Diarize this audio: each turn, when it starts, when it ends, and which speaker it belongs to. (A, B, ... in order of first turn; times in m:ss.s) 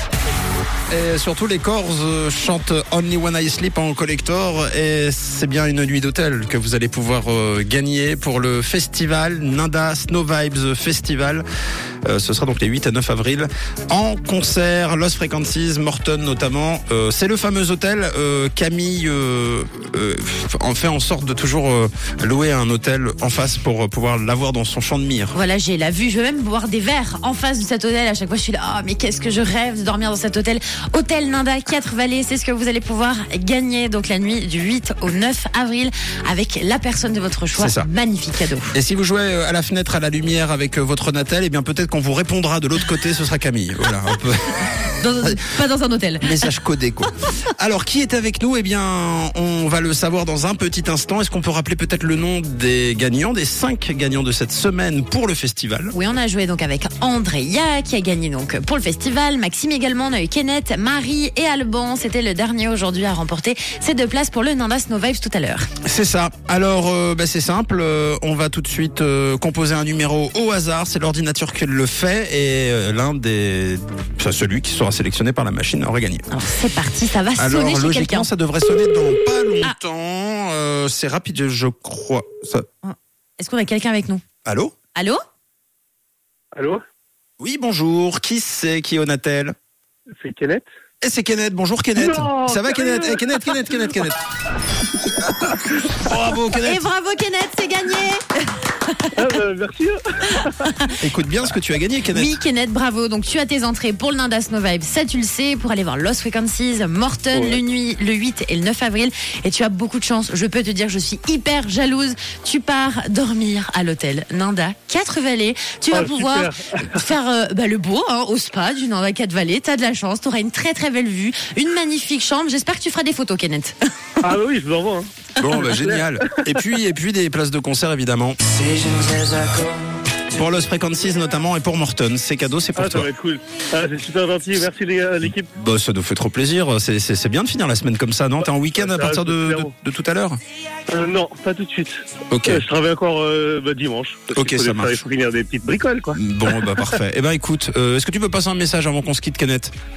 0:00.9-0:11.4 A
0:12.1-0:25.4 A
0:25.3-0:38.7 B
0:37.6-0:37.9 A
0:38.7-0:45.5 A
0:45.0-0:46.5 B
0:46.2-0:56.0 A
0:55.9-1:05.7 B
1:05.8-1:16.3 A
1:16.3-1:18.3 B
1:17.4-1:22.7 A
1:22.8-1:24.2 B
1:24.4-1:24.7 A
1:25.0-1:25.2 B
1:26.6-1:26.8 C
1:27.4-1:29.6 A
1:30.2-1:30.7 C
1:31.0-1:34.2 A
1:32.0-1:34.1 C
1:35.1-1:36.0 C
1:35.9-1:36.8 A
1:36.6-1:39.1 B
1:39.1-1:40.7 C
1:40.4-1:41.0 B
1:41.0-1:42.3 A
1:42.1-2:03.8 B
1:47.3-1:47.6 C
1:55.9-1:57.0 C
2:04.2-2:06.4 C
2:05.4-2:08.4 A
2:09.2-2:09.5 A
2:10.3-2:13.1 A
2:12.8-2:15.5 C
2:15.2-2:20.4 A
2:18.8-2:19.7 C
2:20.9-2:27.0 C
2:22.3-2:22.6 A
2:24.3-2:25.0 A
2:26.2-2:29.7 A